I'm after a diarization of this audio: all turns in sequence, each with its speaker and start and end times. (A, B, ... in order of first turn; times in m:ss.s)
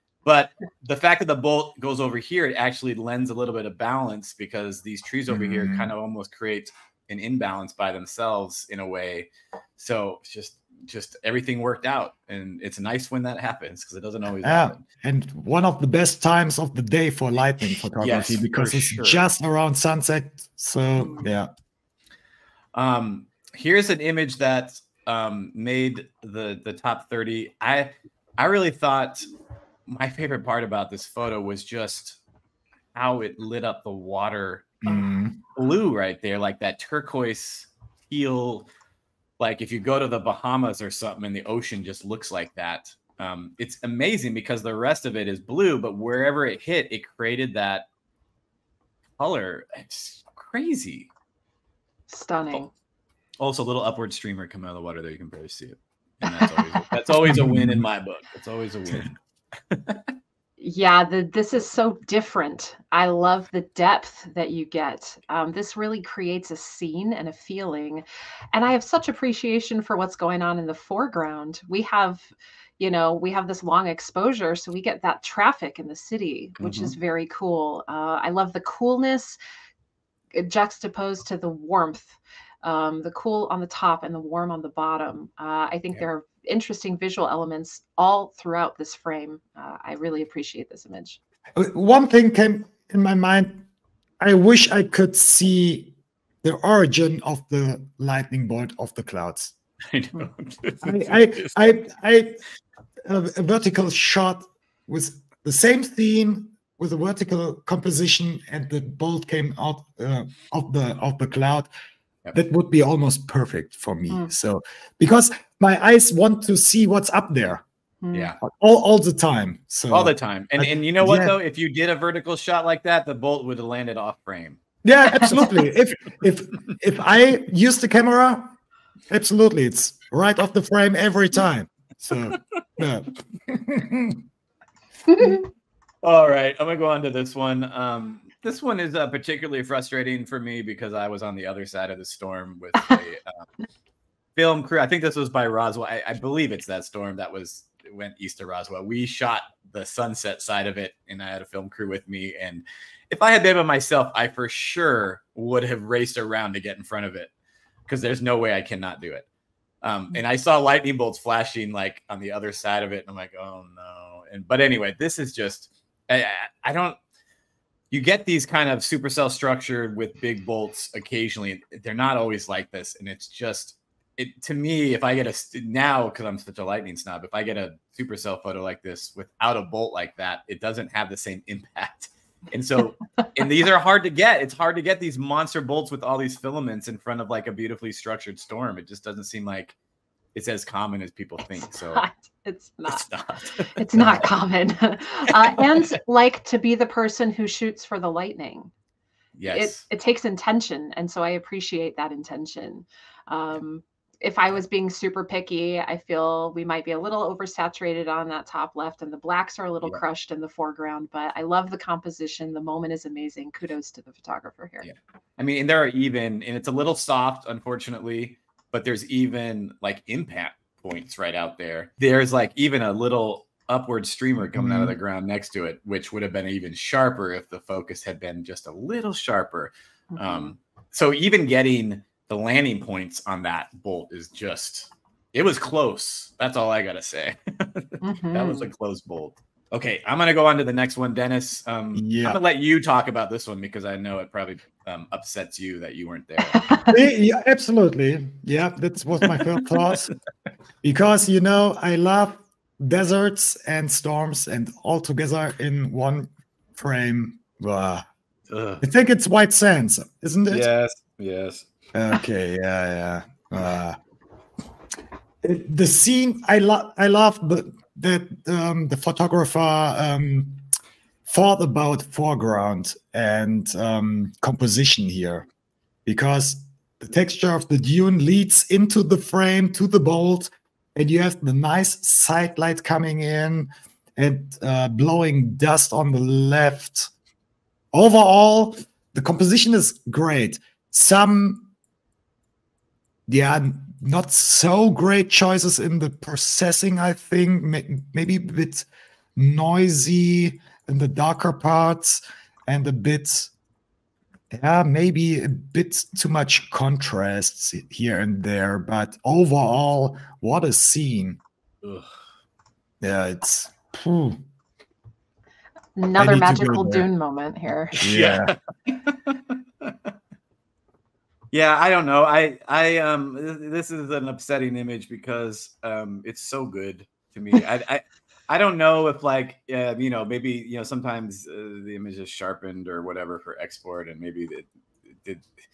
0:00.2-0:14.8 A
0:05.3-0:05.9 B
0:14.4-0:21.5 B
0:18.0-0:19.2 A
0:21.0-0:21.2 C
0:22.7-0:29.2 A
0:29.9-0:32.2 A
0:32.9-0:34.8 A
0:34.8-0:35.4 B
0:35.5-0:38.7 A
0:39.4-0:47.9 A
0:49.2-0:51.1 A
0:52.1-0:52.7 C
0:53.4-0:59.2 A
0:56.2-0:57.0 C
0:57.2-0:57.8 B
0:59.7-1:00.0 A
1:00.6-1:19.4 C
1:16.6-1:16.9 A
1:20.3-1:31.2 C
1:31.5-1:33.6 B
1:34.2-1:39.5 B
1:39.9-1:41.7 A
1:40.8-1:42.4 B
1:43.0-1:51.7 B
1:52.3-1:57.6 B
1:58.0-1:58.3 C
1:58.1-1:58.4 A
1:58.4-2:01.3 B
1:59.9-2:04.6 A
2:04.8-2:08.5 B
2:05.0-2:05.4 C
2:09.1-2:14.2 B
2:15.1-2:15.4 C
2:16.0-2:23.4 A
2:24.4-2:37.3 A
2:37.9-2:39.3 A
2:39.8-2:47.0 A
2:47.9-3:09.8 A
3:10.3-3:12.0 A
3:11.7-3:13.0 C
3:12.9-3:14.3 A
3:13.8-3:18.7 C
3:15.4-3:15.8 A
3:19.3-3:19.8 A
3:19.5-3:34.9 C
3:34.8-4:06.8 A
3:44.4-3:45.0 B
3:50.1-3:50.5 C
3:58.0-3:58.7 C
4:02.0-4:02.4 B
4:06.4-4:06.9 C
4:06.9-4:10.1 B
4:09.2-4:09.7 A
4:10.8-4:18.0 B
4:18.5-4:18.8 A
4:18.8-4:20.7 B
4:20.5-4:21.7 A
4:21.9-4:24.0 B
4:25.4-4:30.6 B
4:31.3-4:35.5 B
4:36.0-4:47.1 B
4:47.9-4:51.7 B
4:53.3-5:03.5 B
5:04.5-5:11.4 B
5:11.8-5:12.1 A
5:13.0-5:14.4 B
5:16.0-5:18.0 C
5:16.2-5:17.1 B
5:18.0-5:20.1 A
5:18.0-5:18.5 B
5:21.5-5:34.6 A